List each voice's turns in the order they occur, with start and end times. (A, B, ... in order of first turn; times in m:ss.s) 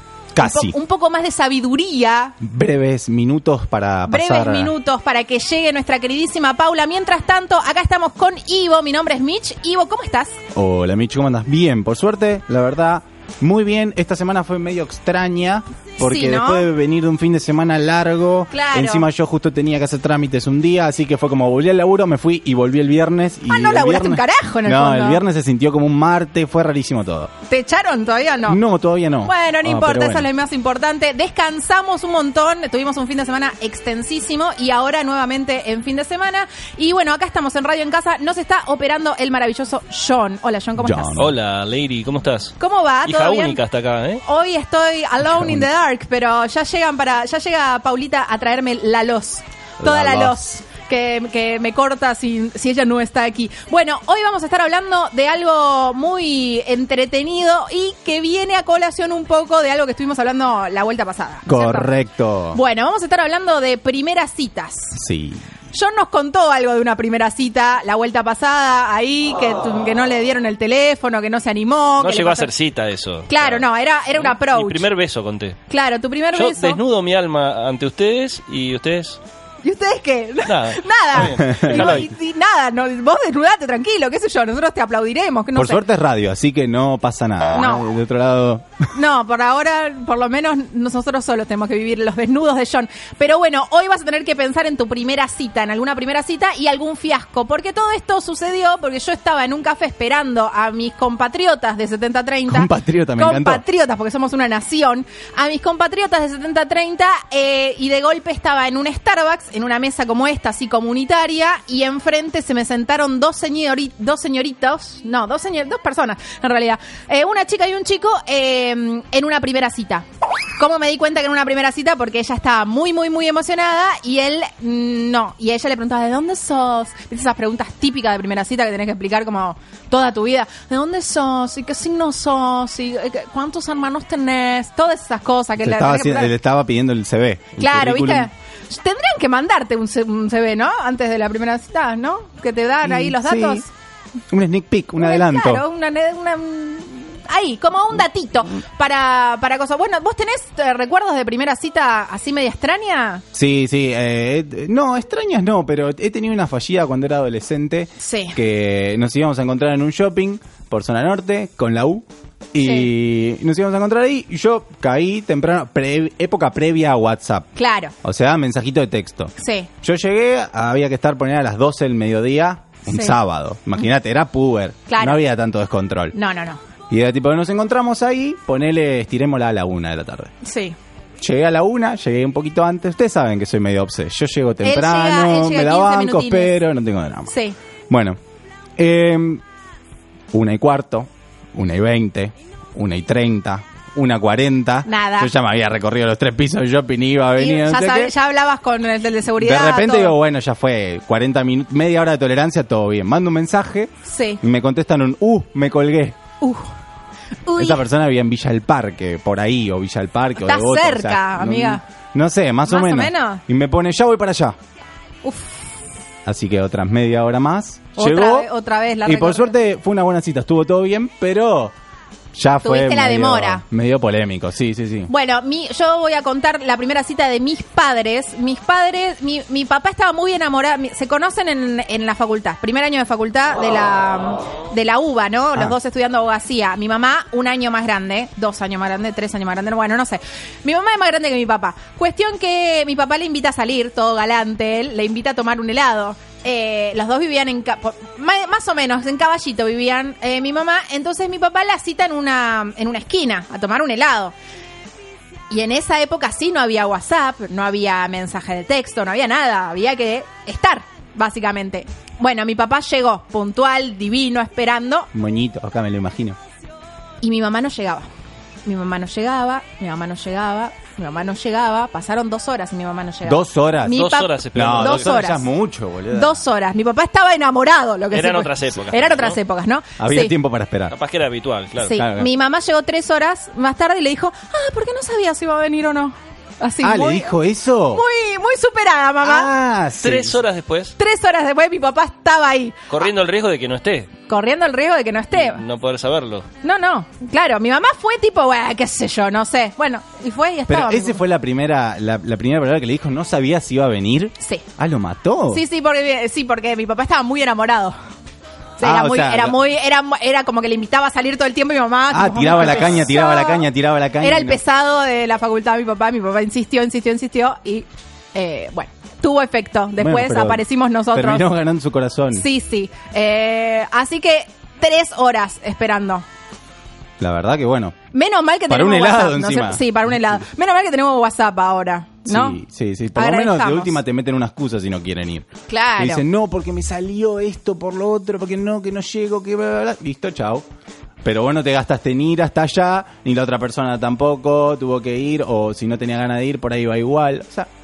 0:00.3-0:00.8 A
0:00.4-0:02.4 B
0:02.4-0:04.7 A
0:04.1-0:10.4 B
0:10.5-0:27.3 A
0:16.0-0:16.7 B
0:18.5-0:19.1 B
0:23.5-0:25.2 B
0:27.5-0:28.6 B
0:28.5-0:30.3 A
0:29.2-0:41.2 B
0:40.8-0:41.3 A
0:41.2-0:44.2 C
0:42.6-0:43.6 B
0:44.2-1:01.9 B
0:45.3-0:45.6 A
0:49.8-0:50.5 A
1:01.5-1:02.6 A
1:02.5-1:05.0 B
1:05.0-1:05.4 A
1:05.7-1:12.5 B
1:12.0-1:15.6 C
1:13.3-1:14.9 B
1:15.7-1:16.8 B
1:16.3-1:19.2 C
1:19.6-1:25.8 B
1:20.4-1:22.1 C
1:21.2-1:22.0 A
1:25.5-1:28.7 A
1:27.5-1:27.9 B
1:28.9-2:16.3 B
1:42.5-1:43.6 A
2:15.6-2:18.3 A
2:17.6-2:23.7 B
2:22.8-2:23.6 A
2:24.3-2:25.6 A
2:25.0-2:33.2 B
2:33.3-2:47.5 A
2:38.0-2:38.4 B
2:42.6-2:42.9 B
2:47.5-2:47.9 B
2:48.0-2:56.1 A
2:49.4-2:49.7 B
2:52.8-2:53.2 B
2:54.9-2:55.2 B
2:56.1-2:56.6 B
2:56.9-3:00.3 A
3:00.4-3:00.8 B
3:01.2-3:07.3 A
3:04.6-3:06.6 B
3:07.3-3:07.6 B
3:07.9-3:08.2 A
3:08.8-3:09.4 A
3:10.3-3:18.1 A
3:14.8-3:15.3 B
3:17.4-3:20.2 B
3:19.4-3:23.9 A
3:24.0-3:24.4 B
3:24.4-3:26.2 A
3:26.4-3:26.7 B
3:27.4-3:27.8 B
3:27.6-3:34.5 A
3:30.4-3:31.8 B
3:32.6-3:33.4 B
3:35.2-3:35.7 B
3:36.2-3:38.5 A
3:38.0-3:39.6 B
3:39.0-3:41.7 A
3:42.3-3:45.1 A
3:42.6-3:43.6 B
3:45.1-4:14.3 B
4:15.5-4:25.1 B
4:25.1-4:26.4 A
4:27.2-4:28.1 B
4:28.6-4:35.5 B
4:33.2-4:36.4 A
4:33.9-4:35.2 C
4:36.1-4:40.3 B
4:38.1-4:39.4 C
4:40.0-4:40.9 A
4:40.9-4:42.0 C
4:41.8-4:47.3 B
4:42.0-4:42.3 A
4:46.8-4:48.0 A
4:47.9-4:49.5 B
4:49.2-4:50.4 A
4:50.0-4:50.9 C
4:51.0-4:53.1 B
4:52.9-4:54.1 C
4:54.3-4:55.6 B
4:55.3-4:56.5 C
4:56.6-5:01.2 B
5:00.7-5:05.6 A
5:04.4-5:04.6 B
5:05.5-5:08.0 B
5:08.8-5:13.7 B
5:08.8-5:09.6 A
5:12.1-5:14.6 A
5:14.2-5:21.4 B
5:20.0-5:22.4 A
5:22.3-5:26.2 B
5:27.2-5:27.9 A
5:28.1-5:32.6 B
5:28.7-5:30.0 A
5:32.2-5:40.6 A
5:33.1-5:34.0 B
5:35.7-5:36.2 B
5:41.2-5:47.7 A